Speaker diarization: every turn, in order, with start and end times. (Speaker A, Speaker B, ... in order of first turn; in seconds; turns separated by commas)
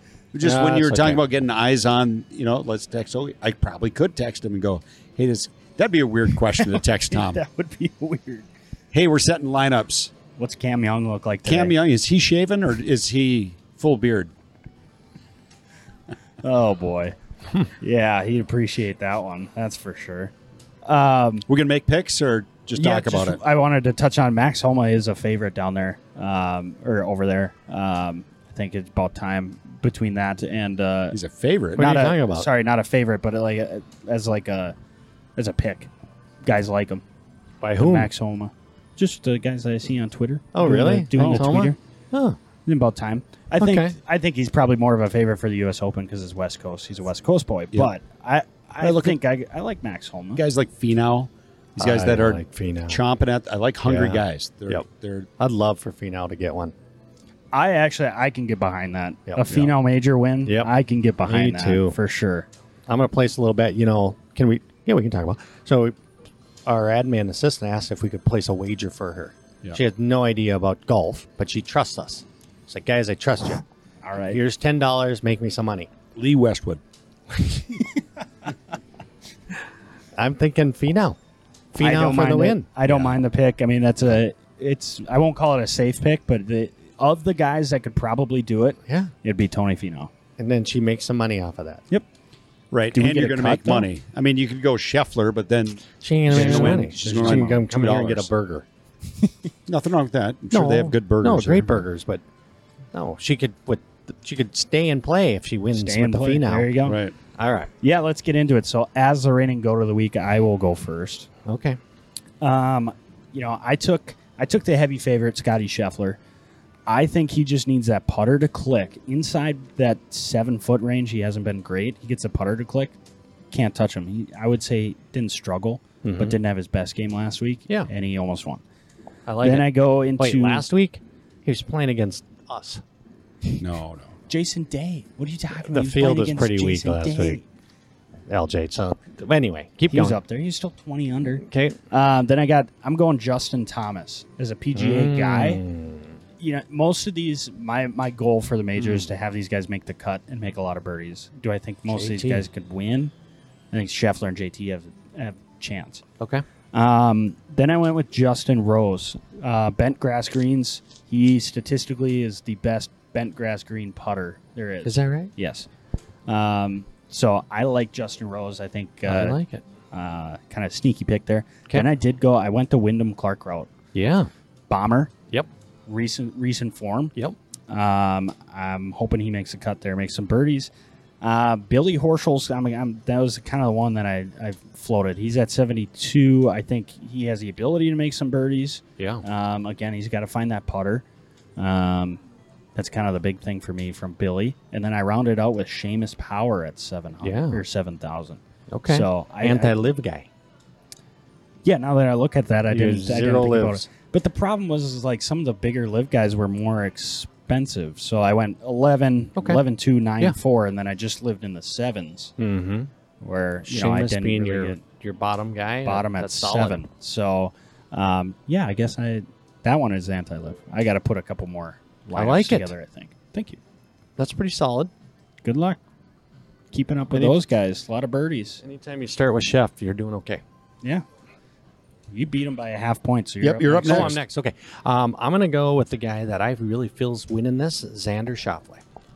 Speaker A: 0.3-7.4, Speaker B: 0.4-1.2, Speaker C: 6.5-8.5, Speaker A: 8.9-10.1, Speaker C: 10.4-11.8, Speaker A: 11.4-14.3, Speaker C: 16.4-20.3, Speaker C: 20.8-21.5, Speaker A: 21.5-23.4, Speaker C: 22.8-31.2, Speaker A: 31.1-31.9, Speaker B: 31.8-32.5, Speaker C: 31.8-34.8, Speaker C: 35.4-35.9, Speaker C: 36.4-37.0, Speaker B: 37.6-38.1, Speaker C: 37.8-41.8, Speaker B: 40.5-42.4, Speaker A: 41.2-41.5, Speaker C: 42.7-50.4, Speaker B: 43.6-44.0, Speaker A: 48.8-49.2, Speaker A: 50.4-55.3, Speaker B: 51.8-53.0, Speaker B: 53.8-54.8, Speaker B: 55.4-56.7, Speaker C: 57.5-62.5, Speaker B: 59.3-59.6, Speaker B: 60.5-60.7, Speaker B: 61.2-62.0, Speaker B: 62.9-66.0, Speaker B: 66.7-73.6, Speaker C: 74.0-74.4, Speaker B: 74.2-75.9, Speaker A: 76.2-76.8, Speaker B: 80.2-81.2, Speaker B: 81.7-82.7, Speaker C: 81.8-90.1, Speaker A: 82.9-83.2, Speaker B: 88.8-89.1, Speaker B: 90.4-91.8, Speaker A: 92.7-98.3, Speaker C: 92.9-93.9, Speaker B: 96.0-98.7, Speaker C: 96.3-97.5, Speaker A: 99.7-101.8, Speaker B: 100.5-102.2, Speaker B: 102.9-106.8, Speaker C: 105.7-107.0, Speaker A: 106.8-107.2, Speaker B: 107.3-107.7, Speaker C: 107.8-111.3, Speaker B: 111.5-111.8, Speaker C: 112.4-116.2, Speaker C: 116.9-122.9, Speaker C: 123.5-128.6, Speaker B: 126.0-126.4, Speaker B: 129.3-132.8, Speaker C: 129.4-130.7, Speaker A: 133.6-134.2, Speaker C: 134.3-137.4, Speaker B: 135.5-137.4, Speaker B: 138.3-140.2, Speaker C: 139.9-145.6, Speaker B: 141.4-141.8, Speaker B: 144.7-146.2, Speaker C: 146.4-153.1, Speaker B: 148.8-149.1, Speaker B: 151.9-152.5, Speaker C: 153.7-156.0, Speaker C: 156.7-165.7, Speaker B: 164.8-165.3, Speaker C: 166.3-169.4, Speaker B: 169.1-169.6, Speaker C: 169.9-173.7, Speaker B: 173.9-174.3, Speaker C: 174.7-175.1, Speaker C: 175.9-177.2, Speaker C: 177.7-180.7, Speaker C: 181.2-191.0, Speaker B: 189.0-189.2, Speaker C: 191.6-192.2, Speaker C: 192.8-199.7, Speaker B: 197.2-197.6, Speaker B: 198.7-200.3, Speaker C: 201.6-212.3, Speaker B: 202.7-203.8, Speaker B: 209.4-209.6, Speaker B: 212.4-212.9, Speaker C: 213.2-214.8, Speaker B: 213.7-216.8, Speaker C: 215.8-223.6, Speaker B: 222.1-222.7, Speaker B: 224.2-224.9, Speaker C: 225.4-225.8, Speaker C: 226.7-228.6, Speaker B: 227.1-227.4, Speaker B: 228.6-230.4, Speaker C: 232.1-234.2, Speaker A: 233.4-234.2, Speaker B: 233.8-238.8